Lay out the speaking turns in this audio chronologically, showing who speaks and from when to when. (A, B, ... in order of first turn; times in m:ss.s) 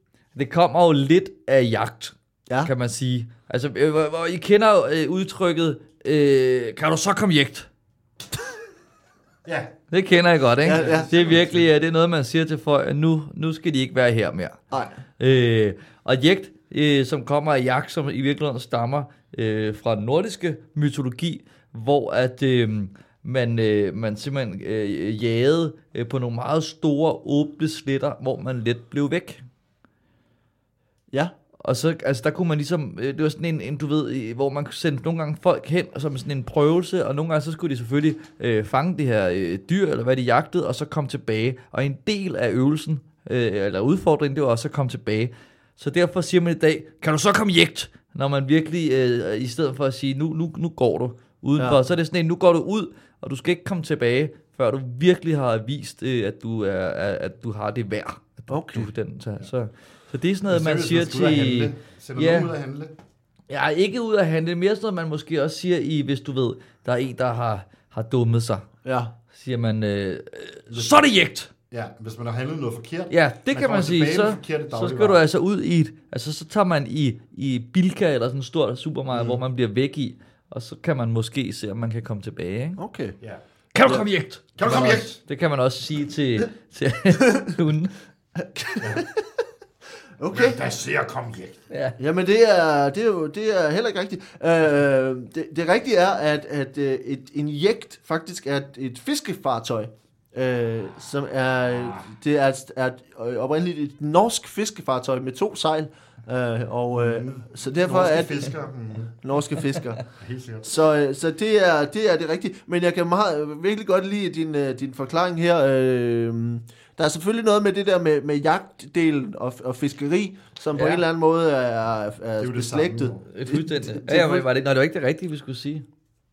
0:00.3-0:07.7 A
0:09.4-0:09.7 B
0:09.9-0:14.6 A
0:10.6-0:11.1 C
0:10.6-0:11.6 B
0:15.2-0:29.4 A
0:31.6-1:02.5 A
0:58.5-0:58.9 C
1:00.5-1:02.9 B
1:03.5-1:08.6 A
1:08.8-1:09.1 C
1:09.3-1:11.5 A
1:11.7-1:15.2 B
1:13.1-1:22.8 A
1:19.1-1:19.4 B
1:22.8-1:23.2 C
1:23.7-1:27.9 A
1:24.6-1:25.2 B
1:28.4-1:29.2 C
1:30.2-1:30.6 C
1:30.3-1:31.6 B
1:31.7-1:32.0 A
1:32.0-1:48.5 C
1:47.0-1:49.2 B
1:49.2-1:50.0 C
1:50.2-1:50.7 B
1:50.6-2:04.5 C
2:00.7-2:01.0 A
2:02.4-2:03.2 B
2:03.3-2:05.8 A